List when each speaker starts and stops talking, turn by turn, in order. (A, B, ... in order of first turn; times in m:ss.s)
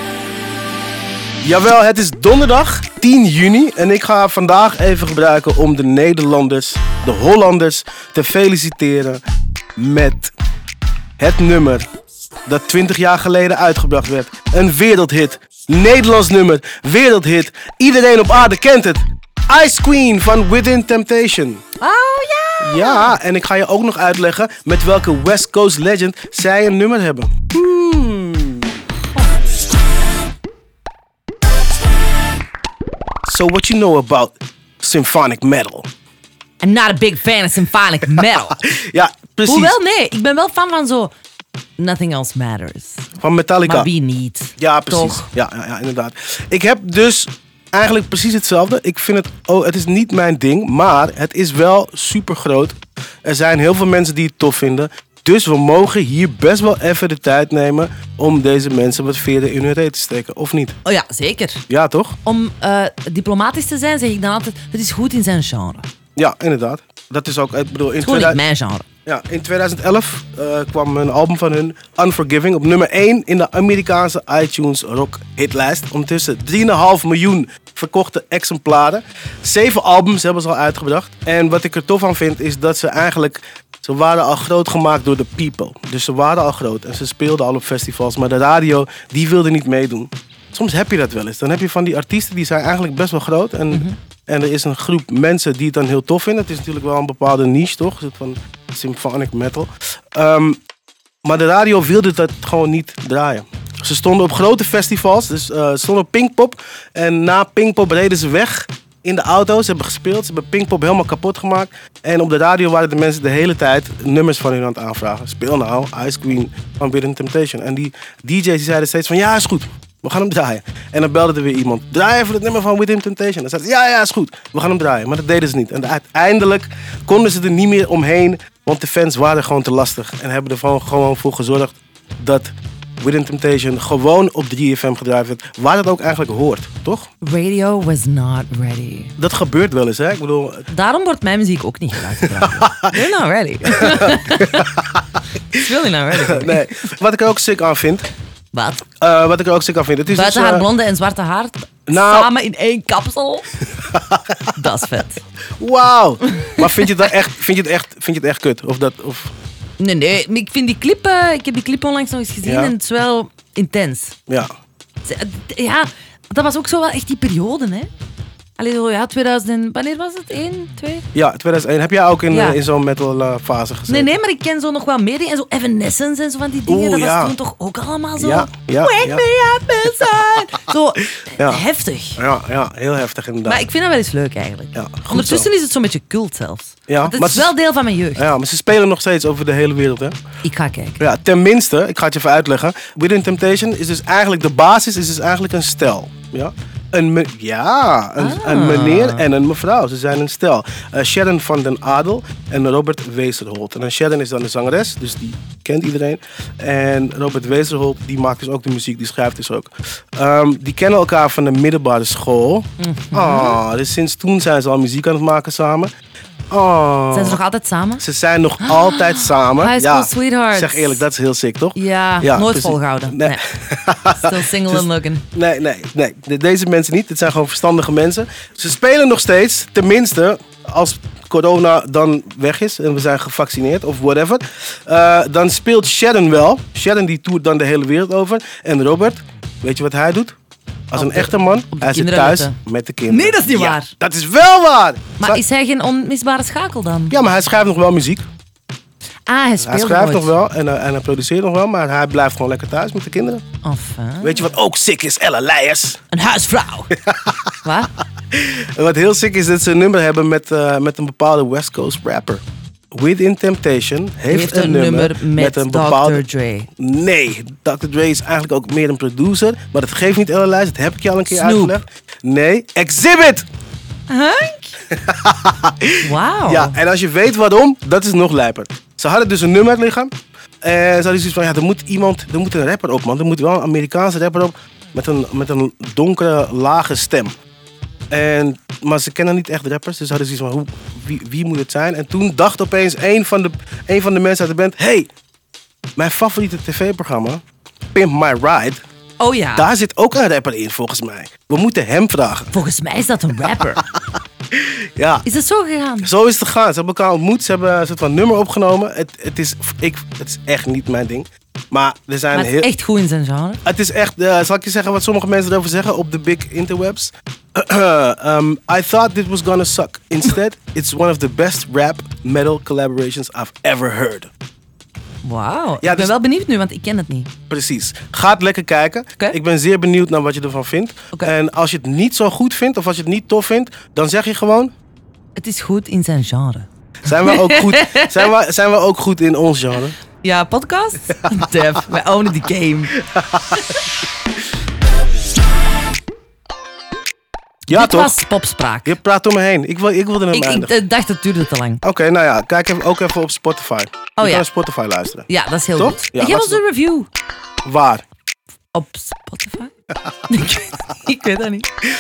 0:01.4-0:09.2 A
0:09.8-0:10.3 A
0:11.2-0:11.9 A
0:12.5-0:21.6 A
0:21.8-0:23.2 B
0:22.6-0:28.8 A
0:33.2-0:35.9 A
0:36.6-0:38.6 B
0:38.6-0:39.7 A
0:39.5-0:41.1 B
0:41.8-0:43.1 B
0:43.2-0:43.9 A
0:43.7-0:45.2 B
0:44.6-1:00.8 A
1:00.8-1:01.6 B
1:01.7-1:02.2 A
1:02.2-1:05.8 B
1:06.2-1:08.4 A
1:08.0-1:08.8 B
1:09.0-1:40.6 A
1:33.7-1:34.0 B
1:41.2-2:17.1 A
2:17.2-2:19.2 B
2:19.2-2:20.7 A
2:20.7-2:24.7 B
2:22.2-2:23.0 A
2:23.7-2:25.0 A
2:25.5-2:26.7 B
2:26.2-2:28.1 A
2:28.5-2:28.8 B
2:29.0-2:30.7 A
2:30.1-2:33.5 B
2:31.9-2:32.3 A
2:33.8-2:34.4 A
2:34.6-2:35.2 B
2:35.6-2:39.3 A
2:36.3-2:37.1 B
2:39.8-2:44.2 B
2:42.4-2:42.7 A
2:45.0-2:47.9 B
2:48.6-2:51.1 B
2:51.1-2:54.2 A
2:52.3-2:52.6 B
2:53.9-3:02.2 B
2:56.7-2:57.4 A
2:58.2-2:59.2 A
3:00.0-3:00.6 A
3:01.2-3:01.6 A
3:02.2-3:03.7 A
3:03.5-3:08.3 B
3:04.8-3:05.5 A
3:06.9-3:07.5 A
3:08.2-3:10.2 A
3:10.4-3:11.0 B
3:11.0-3:35.9 A
3:18.2-3:19.2 B
3:32.8-3:33.6 B
3:36.5-3:37.4 A
3:37.1-3:38.0 B
3:38.0-4:00.4 A
3:38.6-3:41.0 B
3:41.8-3:43.4 B
3:44.2-3:45.2 B
4:00.9-4:05.4 A
4:01.0-4:02.6 B
4:03.1-4:03.9 B
4:05.2-4:07.2 B
4:07.1-4:08.2 A
4:09.3-4:10.3 B
4:09.6-4:13.4 A
4:13.6-4:14.5 B
4:14.2-4:16.0 A
4:16.1-4:16.9 B
4:16.9-4:17.6 A
4:17.6-4:17.9 B
4:18.3-4:26.2 A
4:24.3-4:26.7 B
4:26.8-4:33.4 A
4:31.3-4:31.8 B
4:34.1-4:34.8 B
4:34.9-4:47.4 A
4:36.0-4:36.8 B
4:48.1-4:55.1 A
4:56.0-4:58.8 A
4:59.2-4:59.7 B
4:59.6-5:02.5 A
5:02.5-5:03.8 B
5:03.6-5:03.9 A
5:04.5-5:05.3 A
5:05.2-5:06.1 B
5:06.0-5:12.7 A
5:12.3-5:13.6 B
5:13.6-5:24.3 A
5:25.2-5:27.3 B
5:25.8-5:26.2 A
5:27.5-5:34.7 A
5:35.4-5:38.3 B
5:37.0-5:40.0 A
5:40.2-5:43.0 B
5:43.0-5:43.6 A
5:43.5-5:43.8 B
5:47.7-5:48.2 A
5:47.7-5:49.0 B
5:48.8-5:50.8 A
5:50.3-5:51.8 B
5:51.8-5:56.6 A
5:54.2-5:54.5 B
5:55.3-5:57.1 B
5:57.6-5:58.0 A
5:58.7-5:59.7 B
6:00.3-6:01.7 B